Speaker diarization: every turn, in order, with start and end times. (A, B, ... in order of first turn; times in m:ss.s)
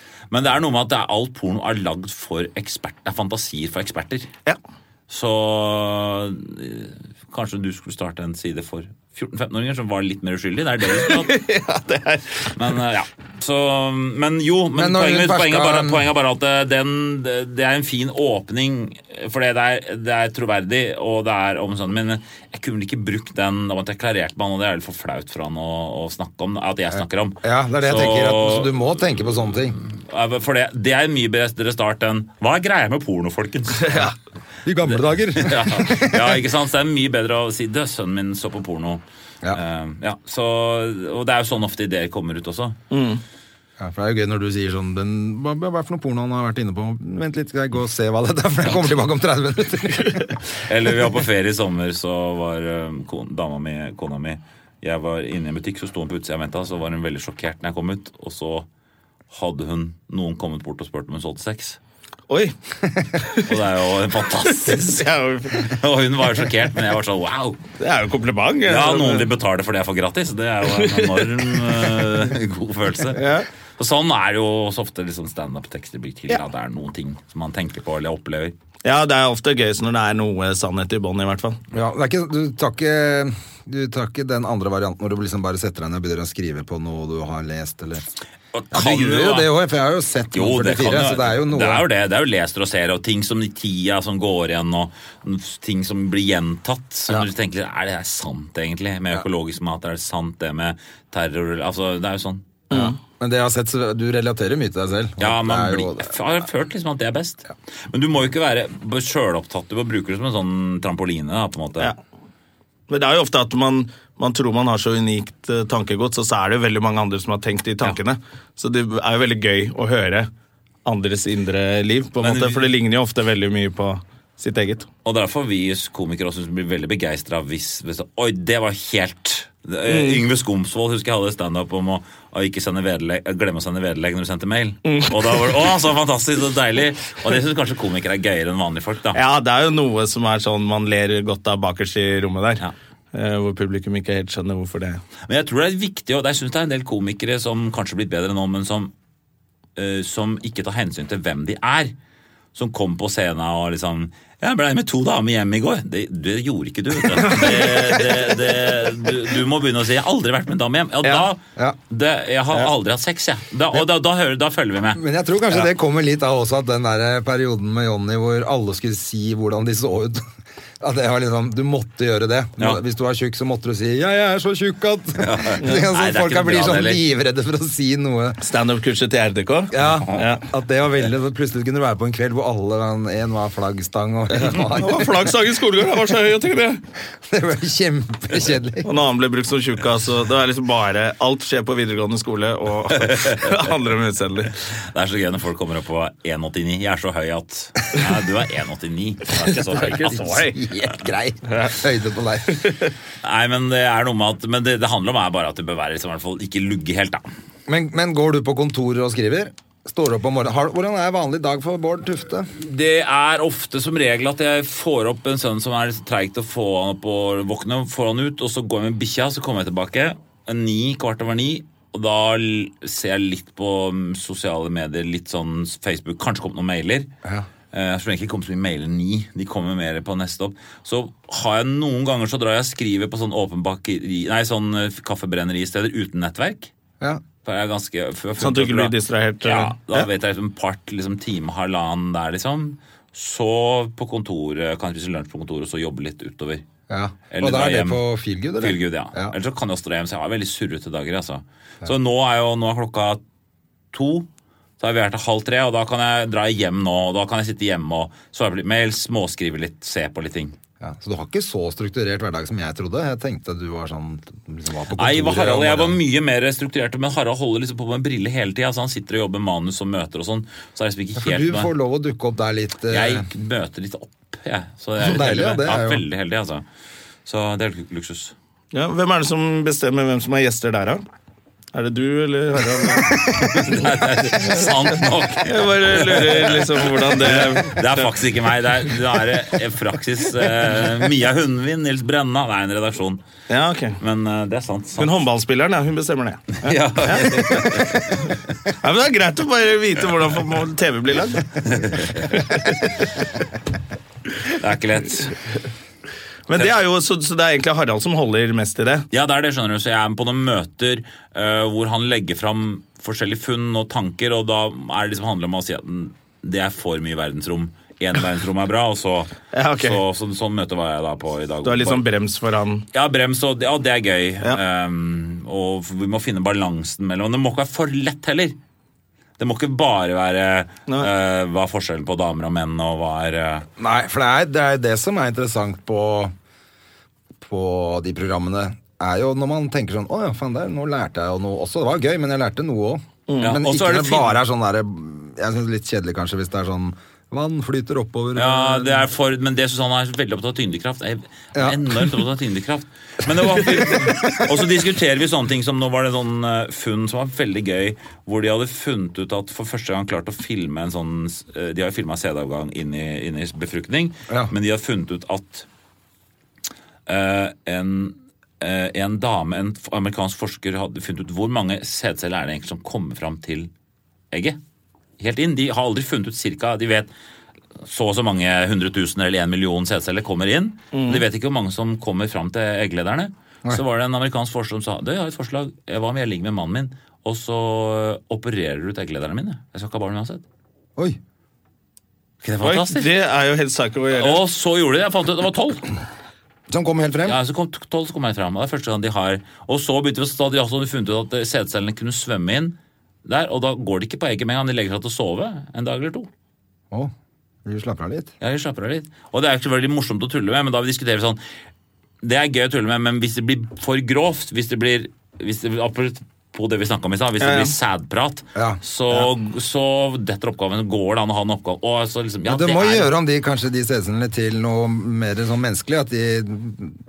0:00.3-0:04.3 A
0:05.1-0:11.4 A
0:10.9-0:12.5 B
0:12.5-0:28.8 A
0:14.7-0:16.0 C
0:27.4-0:29.8 C
0:29.7-0:34.1 A
0:34.6-0:36.4 C
0:34.9-0:42.8 A
0:42.9-0:43.2 B
0:43.8-0:50.3 C
0:50.6-0:58.7 A
0:59.3-1:01.8 A
1:02.3-1:02.5 B
1:03.2-1:03.5 B
1:03.4-1:07.6 A
1:04.6-1:05.6 B
1:07.8-1:09.2 B
1:08.7-1:13.2 A
1:10.7-1:11.3 B
1:13.1-1:13.4 B
1:13.8-1:18.5 A
1:18.8-1:21.6 B
1:21.7-1:28.0 C
1:28.5-1:29.5 A
1:28.7-1:31.8 C
1:30.3-1:42.6 A
1:42.7-1:46.1 C
1:45.2-1:51.9 A
1:52.9-2:00.3 B
2:00.8-2:04.9 B
2:02.2-2:02.7 A
2:05.0-2:19.2 A
2:09.8-2:10.2 B
2:14.8-2:15.6 B
2:19.1-2:25.0 B
2:25.3-2:28.9 A
2:29.8-2:31.9 A
2:32.5-2:45.7 A
2:44.9-2:50.3 C
2:50.8-2:58.4 C
2:55.2-2:57.0 A
2:58.4-3:00.4 B
2:59.7-3:05.2 C
3:04.3-3:06.8 B
3:07.2-3:08.9 C
3:08.8-3:14.5 B
3:12.9-3:13.6 A
3:14.7-3:20.3 A
3:19.7-3:20.6 B
3:20.0-3:22.7 C
3:21.5-3:21.7 B
3:22.5-3:22.9 B
3:23.2-3:27.3 A
3:27.7-3:32.5 C
3:32.6-3:47.1 A
3:47.7-3:56.7 A
3:57.4-4:06.6 A
3:58.4-4:00.1 B
4:06.9-4:09.3 C
4:07.3-4:08.0 A
4:08.6-4:13.2 A
4:13.9-4:14.3 A
4:14.8-4:20.5 A
4:20.8-4:26.0 C
4:25.0-4:31.7 A
4:31.2-4:33.2 C
4:32.9-4:36.6 A
4:35.0-4:36.0 C
4:37.2-4:38.3 A
4:38.7-4:41.0 B
4:41.7-4:43.2 B
4:43.1-4:53.2 A
4:45.4-4:48.1 B
4:53.5-4:54.0 B
4:54.0-4:55.2 A
4:55.0-4:57.8 B
4:56.6-4:58.4 A
4:58.8-5:01.4 B
5:01.6-5:02.4 A
5:02.3-5:02.9 B
5:04.4-5:05.4 A
5:06.5-5:09.1 B
5:09.1-5:22.0 A
5:19.5-5:20.0 B
5:21.6-5:22.8 B
5:22.9-5:28.6 A
5:29.4-5:33.7 A
5:33.8-5:36.3 C
5:37.4-5:49.0 C
5:43.3-5:43.6 B
5:43.4-5:44.4 A
5:48.4-6:05.6 A
5:51.5-5:52.2 C
5:53.4-5:54.2 C
6:07.1-6:13.7 A
6:14.3-6:14.6 A
6:15.2-6:17.1 A
6:17.8-6:30.4 A
6:20.9-6:21.2 B
6:32.4-6:33.1 A
6:32.6-6:34.4 B
6:34.1-6:35.9 A
6:36.7-6:37.4 C
6:37.2-6:46.3 A
6:47.6-6:48.3 C
6:48.4-6:51.4 A
6:52.2-7:03.1 A
6:57.4-6:57.7 B
6:58.5-6:58.8 C
7:02.4-7:07.0 C